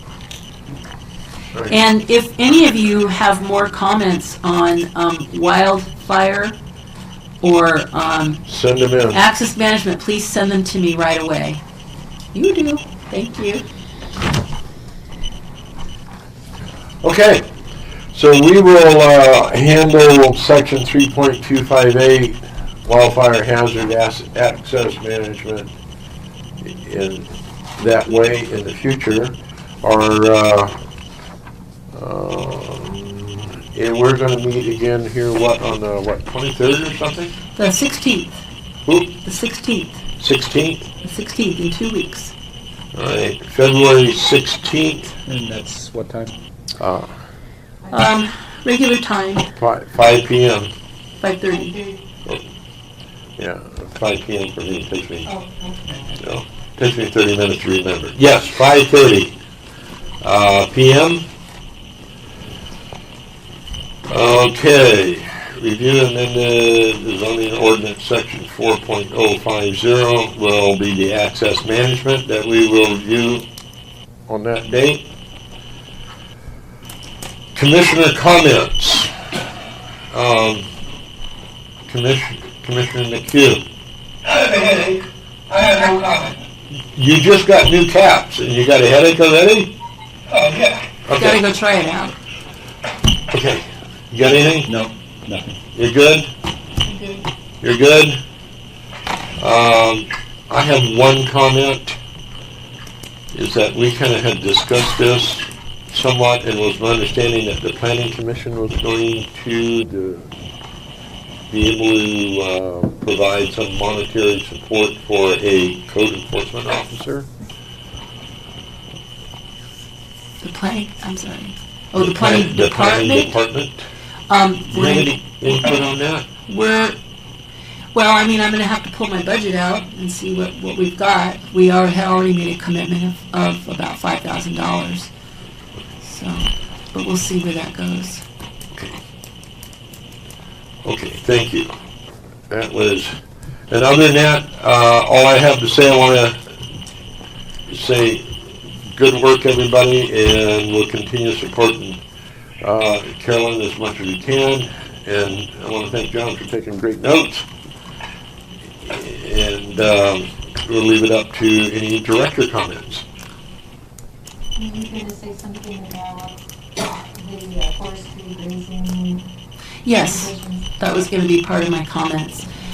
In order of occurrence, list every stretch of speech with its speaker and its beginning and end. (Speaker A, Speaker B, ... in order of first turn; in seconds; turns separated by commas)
Speaker A: 1.5-1.8, Speaker B: 1.7-6.6, Speaker B: 7.4-8.4, Speaker A: 8.5-9.2, Speaker B: 9.1-11.6, Speaker B: 12.3-13.7, Speaker A: 17.0-17.4, Speaker A: 18.1-25.7, Speaker A: 26.6-30.7, Speaker A: 31.9-37.3, Speaker B: 37.5-38.4, Speaker A: 38.8-39.1, Speaker B: 39.2-40.0, Speaker A: 40.2-40.9, Speaker B: 41.0-42.3, Speaker A: 42.9-45.1, Speaker C: 45.2-46.3, Speaker A: 46.8-47.1, Speaker B: 47.9-49.5, Speaker A: 49.6-50.7, Speaker B: 51.2-51.8, Speaker D: 51.5-52.0, Speaker A: 53.4-55.3, Speaker D: 55.2-56.2, Speaker A: 56.1-59.3, Speaker A: 60.2-61.2, Speaker A: 64.1-73.4, Speaker A: 74.3-75.0, Speaker A: 77.5-79.3, Speaker A: 80.1-80.7, Speaker A: 81.9-83.6, Speaker E: 84.2-86.3, Speaker A: 86.9-89.7, Speaker E: 90.3-90.8, Speaker A: 91.1-91.4, Speaker B: 91.1-92.1, Speaker A: 93.3-94.7, Speaker C: 94.7-95.6, Speaker A: 95.7-96.3, Speaker A: 97.6-98.2, Speaker A: 99.4-102.0, Speaker A: 103.3-110.3, Speaker A: 111.5-117.3, Speaker B: 120.4-123.4, Speaker A: 122.0-123.8, Speaker B: 124.3-125.8, Speaker A: 124.7-126.2, Speaker B: 126.5-127.0, Speaker B: 127.9-135.1, Speaker B: 136.0-138.2, Speaker A: 138.7-139.0, Speaker A: 140.8-141.7, Speaker A: 142.5-143.1, Speaker A: 143.7-146.4, Speaker A: 147.7-148.2, Speaker A: 148.8-152.0, Speaker A: 152.6-157.4, Speaker A: 158.8-163.0, Speaker D: 164.6-166.4, Speaker D: 167.1-169.2, Speaker B: 169.8-172.4, Speaker D: 169.9-170.7